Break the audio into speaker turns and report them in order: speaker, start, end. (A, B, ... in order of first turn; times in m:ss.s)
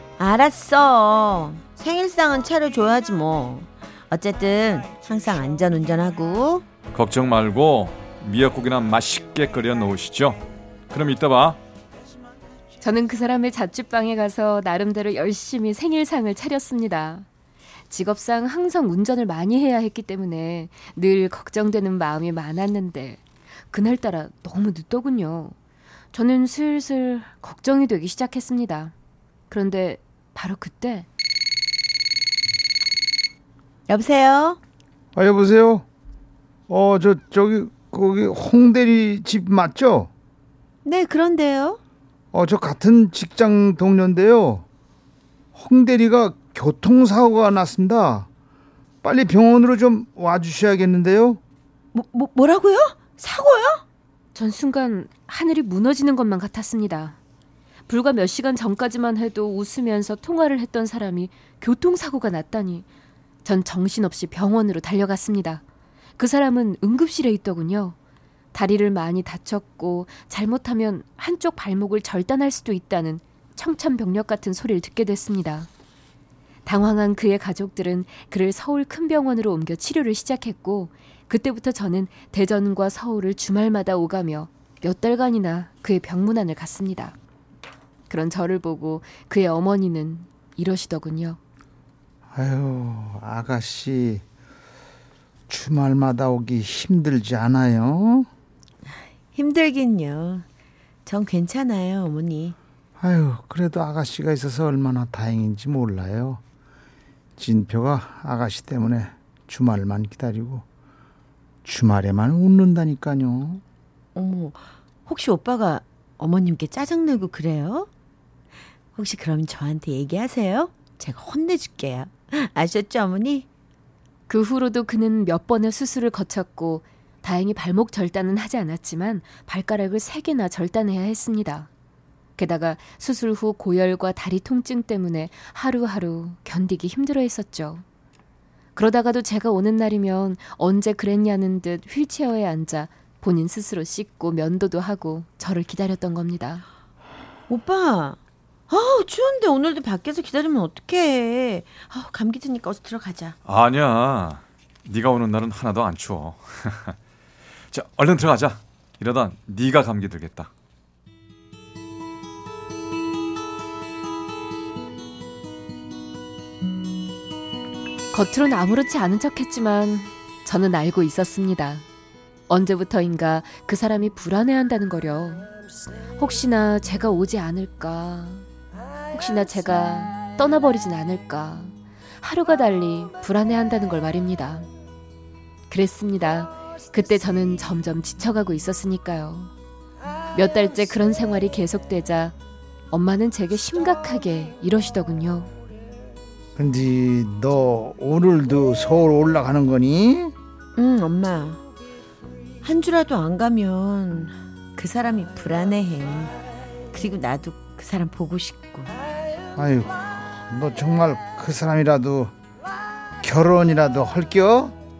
0:00.2-0:06.6 A
0:06.9-0:11.6 B
0:12.8-0:17.2 C
0:17.9-0:25.5 C
0:26.1-0:28.9 C
0:29.5-0:31.1 C
0:33.9-0:34.6 A
0:35.1-0:35.8 D
0:36.7-0:40.1 D
0:40.8-0:41.8 A
0:42.3-0:44.6 D
0:45.5-0:48.3 D
0:49.0-0:51.4 D
0:51.9-0:53.8 A
0:54.3-0:57.2 C
0:57.9-1:02.9 C
1:03.4-1:05.6 C
1:06.2-1:08.0 C
1:08.5-1:15.7 C
1:16.6-1:27.2 C
1:28.1-1:31.4 C
1:32.3-1:34.2 D
1:35.5-1:38.3 D
1:39.3-1:40.4 A
1:41.0-1:42.5 A
1:43.0-1:46.4 D
1:47.4-1:50.6 D
1:51.6-1:53.6 D
1:54.1-1:57.9 A
1:58.9-2:03.5 A
2:04.3-2:11.7 C
2:12.4-2:17.8 C
2:18.8-2:26.6 C
2:27.5-2:28.2 A
2:28.7-2:33.3 A
2:33.4-2:37.0 B
2:37.7-2:40.5 B
2:48.1-2:51.8 C
2:52.5-2:55.5 C
2:56.2-2:58.4 C
2:59.1-3:04.7 C
3:05.7-3:09.5 C
3:10.3-3:12.3 C
3:12.9-3:15.5 C
3:16.6-3:20.3 D
3:20.8-3:21.6 A
3:22.6-3:26.3 A
3:26.9-3:28.9 A
3:29.6-3:32.3 D
3:33.2-3:34.7 D